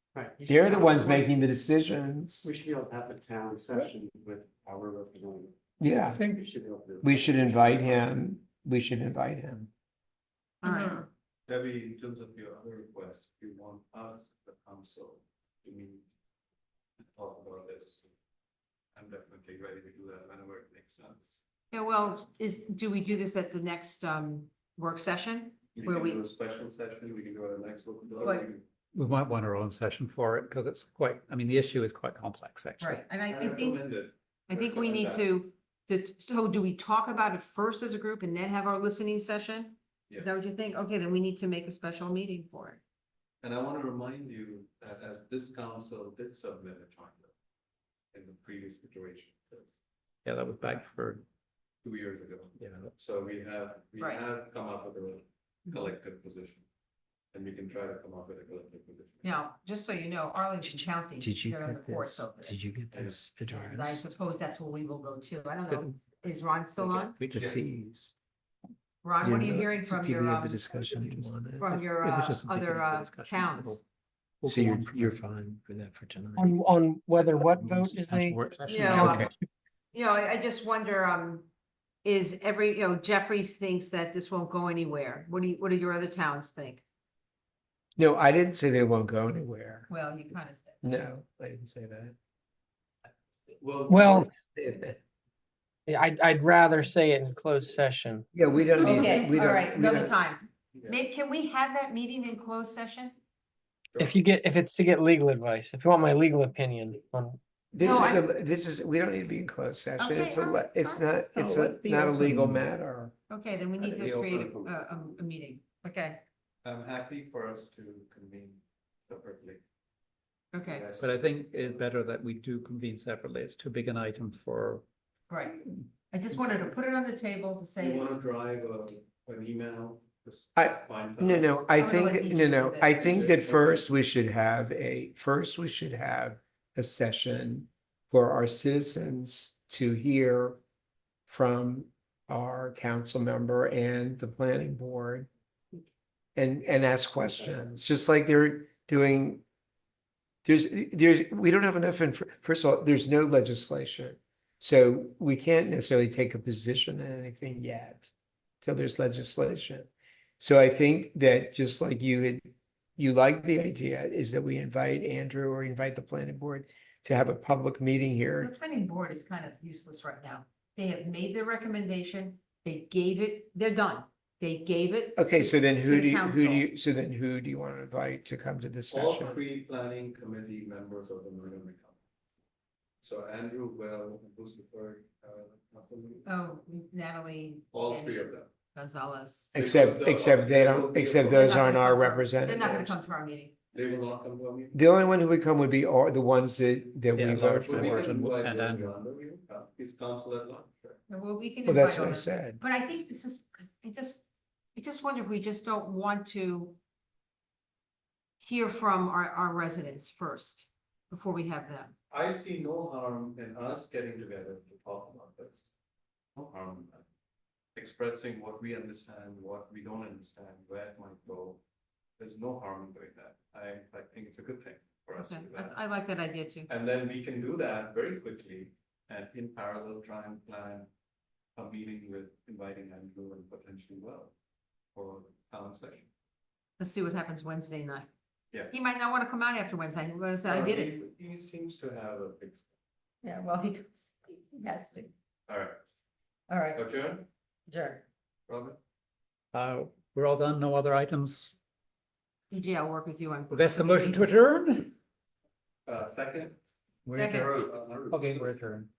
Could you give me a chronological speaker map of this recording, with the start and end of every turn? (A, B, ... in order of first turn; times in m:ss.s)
0:00.4-0:02.5 A
0:00.6-0:01.2 B
0:02.4-0:05.5 C
0:05.8-0:06.2 A
0:06.1-0:06.4 D
0:06.4-0:08.1 C
0:07.0-0:09.7 A
0:10.6-0:11.0 B
0:11.5-0:16.0 E
0:17.0-0:18.1 E
0:18.9-0:21.4 E
0:21.7-0:26.2 B
0:25.7-0:28.6 E
0:28.2-0:28.5 B
0:28.9-0:33.1 D
0:32.8-0:33.8 B
0:33.3-0:35.3 E
0:34.5-0:42.8 B
0:43.4-0:47.3 E
0:48.1-0:49.7 E
0:50.2-0:51.2 D
0:51.8-0:56.6 E
0:52.6-0:52.9 D
0:54.0-0:54.2 B
0:57.3-0:59.3 E
0:59.2-1:02.7 B
1:01.2-1:03.9 A
1:02.7-1:03.7 C
1:02.9-1:03.3 E
1:03.5-1:07.2 B
1:07.0-1:07.5 D
1:07.3-1:08.2 A
1:07.3-1:07.6 E
1:09.0-1:10.7 B
1:09.2-1:11.7 A
1:10.9-1:13.8 D
1:11.6-1:13.8 B
1:14.4-1:15.2 D
1:14.7-1:15.2 A
1:16.4-1:19.3 F
1:18.7-1:19.3 B
1:18.8-1:19.2 C
1:18.8-1:19.3 A
1:19.9-1:21.5 B
1:22.0-1:26.8 B
1:28.0-1:29.9 A
1:29.9-1:31.0 B
1:30.8-1:32.1 A
1:33.5-1:34.3 E
1:33.9-1:34.3 F
1:34.0-1:35.0 A
1:35.9-1:38.3 F
1:38.3-1:40.1 A
1:38.8-1:43.2 B
1:44.0-1:47.4 F
1:47.7-1:53.1 A
1:47.8-1:48.2 B
1:50.0-1:51.0 B
1:51.4-1:52.6 D
1:53.3-1:56.2 B
1:53.8-1:54.8 E
1:56.6-1:59.6 E
2:00.5-2:00.8 B
2:00.6-2:01.9 E
2:01.0-2:04.8 D
2:05.3-2:08.1 B
2:07.8-2:12.1 E
2:10.6-2:20.6 A
2:11.7-2:13.1 B
2:13.0-2:13.8 E
2:21.3-2:25.3 A
2:26.4-2:29.4 A
2:30.4-2:39.9 A
2:40.4-2:48.5 A
2:48.4-2:56.7 B
2:55.2-2:59.4 A
2:58.9-3:02.0 E
3:03.0-3:06.3 E
3:06.2-3:09.5 B
3:07.7-3:08.5 E
3:09.5-3:11.6 E
3:09.5-3:13.0 A
3:11.3-3:13.5 B
3:13.7-3:14.8 E
3:14.7-3:18.1 A
3:17.1-3:18.9 D
3:17.2-3:21.0 E
3:21.1-3:26.8 B
3:21.6-3:22.6 A
3:28.4-3:31.9 B
3:32.1-3:35.7 E
3:36.4-3:37.0 E
3:37.8-3:41.6 E
3:42.2-3:45.8 E
3:45.2-3:46.7 B
3:46.7-3:50.9 E
3:51.6-3:54.3 E
3:54.9-3:56.1 E
3:56.8-3:58.1 B
3:58.7-4:00.9 B
4:00.4-4:02.7 E
4:03.2-4:05.1 B
4:05.5-4:05.8 E
4:06.5-4:06.8 B
4:06.7-4:07.2 E
4:07.7-4:08.0 B
4:08.5-4:08.8 E
4:09.5-4:11.5 D
4:12.5-4:14.3 B
4:13.5-4:14.9 D
4:15.9-4:16.6 E
4:17.0-4:18.9 D
4:17.1-4:17.5 B
4:17.2-4:18.6 E